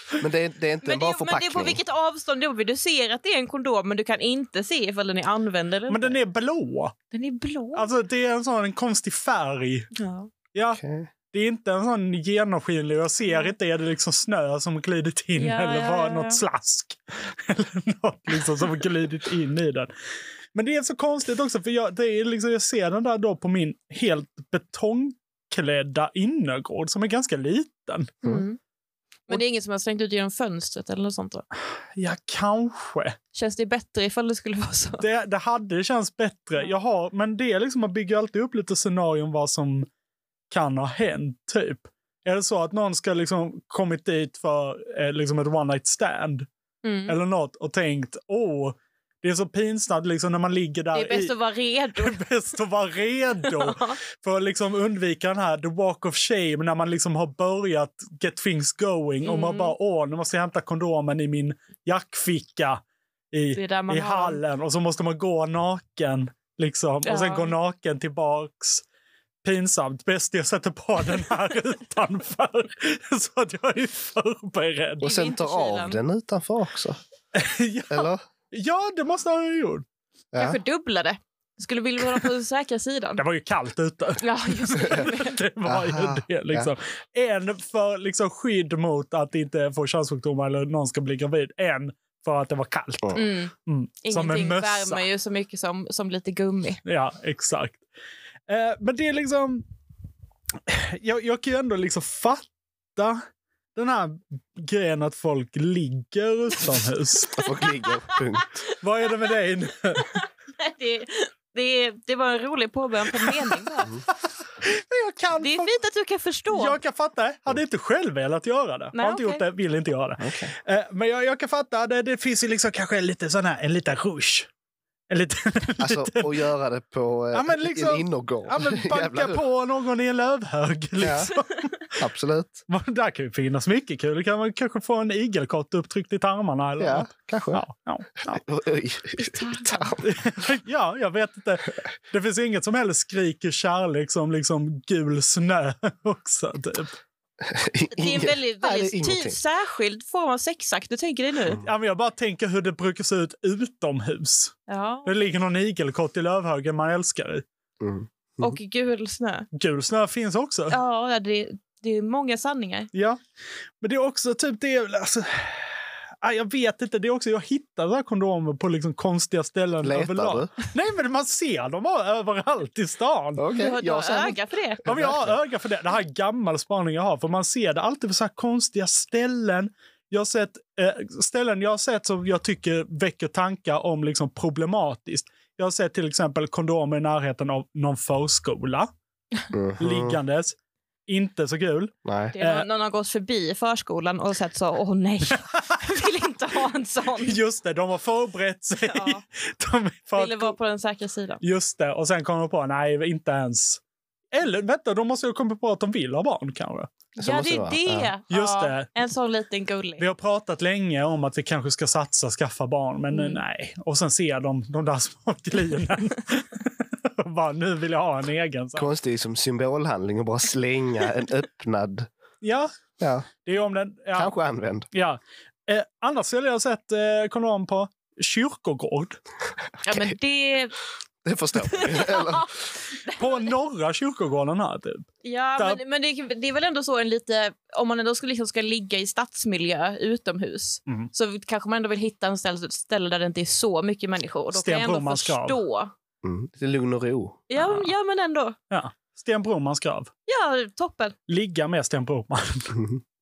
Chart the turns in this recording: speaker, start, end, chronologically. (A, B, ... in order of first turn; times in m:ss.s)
0:00.2-0:01.8 A
0:00.8-0:06.2 B
0:05.9-0:06.9 C
0:07.1-0:07.9 B
0:07.7-0:09.9 C
0:09.9-0:10.3 B
0:10.5-0:10.8 C
0:10.7-0:11.1 A
0:11.3-0:19.9 C
0:13.3-0:13.5 B
0:15.4-0:16.4 B
0:20.5-0:28.2 C
0:28.2-0:28.6 B
0:29.3-0:31.4 B
0:31.9-0:33.2 C
0:33.3-0:35.0 B
0:35.0-0:39.9 C
0:40.5-0:46.5 C
0:46.8-0:47.2 B
0:47.1-0:51.3 C
0:50.9-0:52.2 B
0:52.0-1:02.8 C
0:53.4-0:53.9 B
0:59.2-0:59.8 B
1:03.3-1:08.8 C
1:03.5-1:04.4 B
1:07.0-1:07.5 B
1:09.4-1:15.1 C
1:15.0-1:16.0 B
1:15.0-1:17.0 A
1:17.3-1:19.8 C
1:17.9-1:18.2 A
1:20.3-1:20.6 A
1:20.4-1:23.2 B
1:23.2-1:35.0 C
1:24.2-1:25.3 B
1:25.6-1:26.7 A
1:33.1-1:33.5 B
1:34.0-1:36.8 B
1:36.8-1:37.8 C
1:38.5-1:39.6 C
1:40.7-1:42.4 C
1:43.0-1:43.2 C
1:43.8-1:47.3 C
1:47.3-1:48.6 A
1:48.8-1:50.1 C
1:50.2-1:53.9 B
1:54.6-1:55.7 C
1:55.4-1:56.8 B
1:56.5-2:04.5 C
1:58.9-1:59.4 B
2:00.2-2:00.5 A
2:05.1-2:06.5 C
2:05.8-2:09.4 A
2:07.3-2:11.7 C
2:11.0-2:11.3 A
2:12.0-2:12.6 A
2:12.7-2:18.4 C
2:16.8-2:17.6 A
2:18.3-2:20.1 A
2:19.2-2:19.9 B
2:20.0-2:26.9 C
2:27.4-2:29.4 A
2:27.9-2:31.6 B
2:31.6-2:37.4 C
2:34.7-2:35.1 B
2:37.8-2:38.6 A
2:38.4-2:39.5 B
2:39.5-2:40.8 C
2:40.7-2:42.9 B
2:42.9-2:43.2 C
2:43.8-2:53.4 C
2:49.8-2:50.5 A
2:53.4-2:55.4 A
2:53.5-2:54.8 B
2:54.8-3:08.9 C
3:09.5-3:10.2 A
3:09.8-3:10.6 C
3:11.1-3:12.6 C
3:12.0-3:12.3 A
3:12.3-3:17.4 B
3:15.5-3:15.8 C
3:17.2-3:20.6 C
3:18.8-3:19.2 B
3:20.1-3:21.4 B
3:21.4-3:23.8 C
3:24.3-3:26.9 C
3:27.2-3:28.1 A
3:27.2-3:30.0 B
3:28.3-3:28.9 C
3:30.0-3:38.9 C
3:33.1-3:33.4 B
3:38.8-3:42.1 A
3:42.4-3:42.7 C
3:43.0-3:43.3 A
3:43.4-3:44.3 C
3:44.2-3:44.9 A
3:44.9-3:49.2 C
3:49.8-3:50.2 A
3:49.8-3:50.7 B
3:51.2-3:52.5 A
3:51.7-3:52.5 B
3:53.0-3:53.5 B
3:53.2-3:55.8 C
3:55.2-4:05.9 B
4:04.5-4:05.6 C
4:06.2-4:07.4 A
4:07.5-4:08.6 B
4:07.6-4:07.9 C
4:08.7-4:10.1 C
4:10.3-4:11.2 B
4:11.3-4:12.8 C